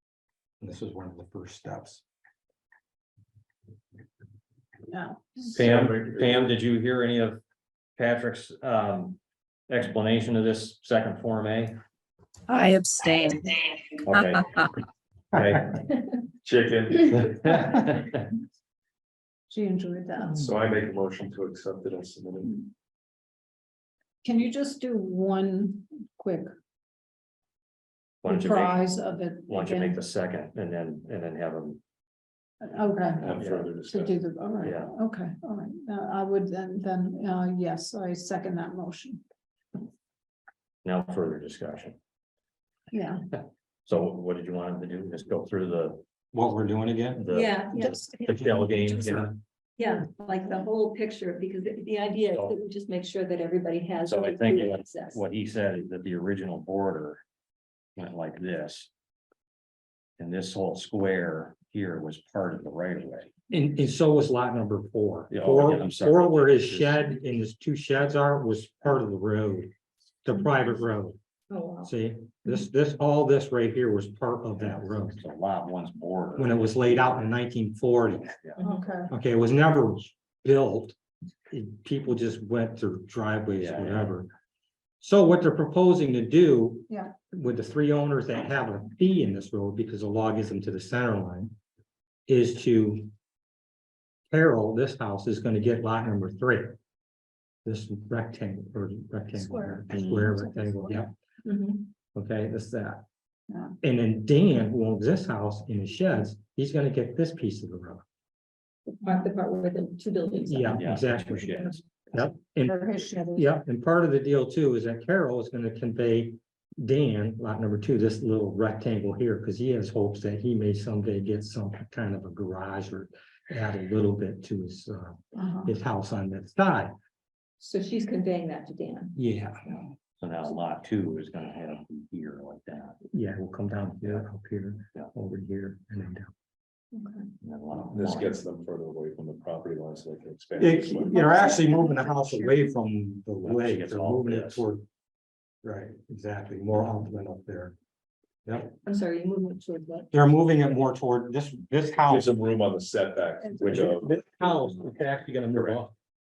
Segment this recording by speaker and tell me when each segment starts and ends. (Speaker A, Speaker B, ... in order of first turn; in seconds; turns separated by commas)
Speaker A: 0.6-2.0, Speaker B: 4.9-5.5, Speaker C: 5.5-6.5, Speaker D: 5.5-7.4, Speaker D: 8.0-11.8, Speaker B: 12.5-13.5, Speaker D: 14.0-14.6, Speaker D: 15.4-15.8, Speaker C: 16.4-17.7, Speaker D: 17.5-18.2, Speaker B: 19.5-20.5, Speaker C: 20.3-22.6, Speaker B: 24.2-26.5, Speaker D: 28.2-28.9, Speaker B: 28.2-30.0, Speaker D: 29.5-31.8, Speaker B: 32.6-39.2, Speaker C: 33.2-34.2, Speaker D: 33.4-33.7, Speaker D: 34.6-35.0, Speaker D: 40.8-42.0, Speaker B: 42.9-43.2, Speaker D: 43.9-46.0, Speaker A: 46.3-47.3, Speaker D: 47.1-49.4, Speaker E: 47.3-48.2, Speaker E: 49.8-55.2, Speaker D: 54.1-57.2, Speaker D: 58.0-58.9, Speaker D: 60.2-63.3, Speaker A: 63.5-69.7, Speaker D: 65.3-67.1, Speaker A: 70.2-71.2, Speaker E: 71.5-71.9, Speaker A: 71.8-75.2, Speaker D: 74.6-77.3, Speaker A: 76.4-78.3, Speaker B: 78.6-79.1, Speaker E: 78.6-78.9, Speaker A: 79.1-81.0, Speaker A: 81.5-84.3, Speaker D: 83.6-84.1, Speaker A: 85.0-91.5, Speaker A: 92.3-93.1, Speaker A: 94.3-96.8, Speaker A: 97.7-101.1, Speaker B: 99.3-101.0, Speaker E: 101.4-101.9, Speaker A: 102.2-103.0, Speaker B: 103.5-103.8, Speaker A: 103.8-108.0, Speaker E: 108.9-110.8, Speaker A: 110.5-112.8, Speaker D: 110.7-111.8, Speaker B: 112.6-113.5, Speaker A: 113.3-126.9, Speaker B: 125.4-125.7, Speaker E: 127.6-129.2, Speaker A: 129.2-129.9, Speaker D: 130.2-133.0, Speaker A: 133.1-136.3, Speaker E: 136.9-137.3, Speaker D: 137.4-138.4, Speaker C: 137.9-141.2, Speaker A: 140.6-144.8, Speaker B: 140.9-142.6, Speaker D: 143.4-144.7, Speaker A: 145.6-147.8, Speaker A: 148.4-148.7, Speaker E: 148.8-150.1, Speaker A: 150.1-152.3, Speaker C: 152.1-154.2, Speaker B: 153.4-154.0, Speaker A: 153.7-155.9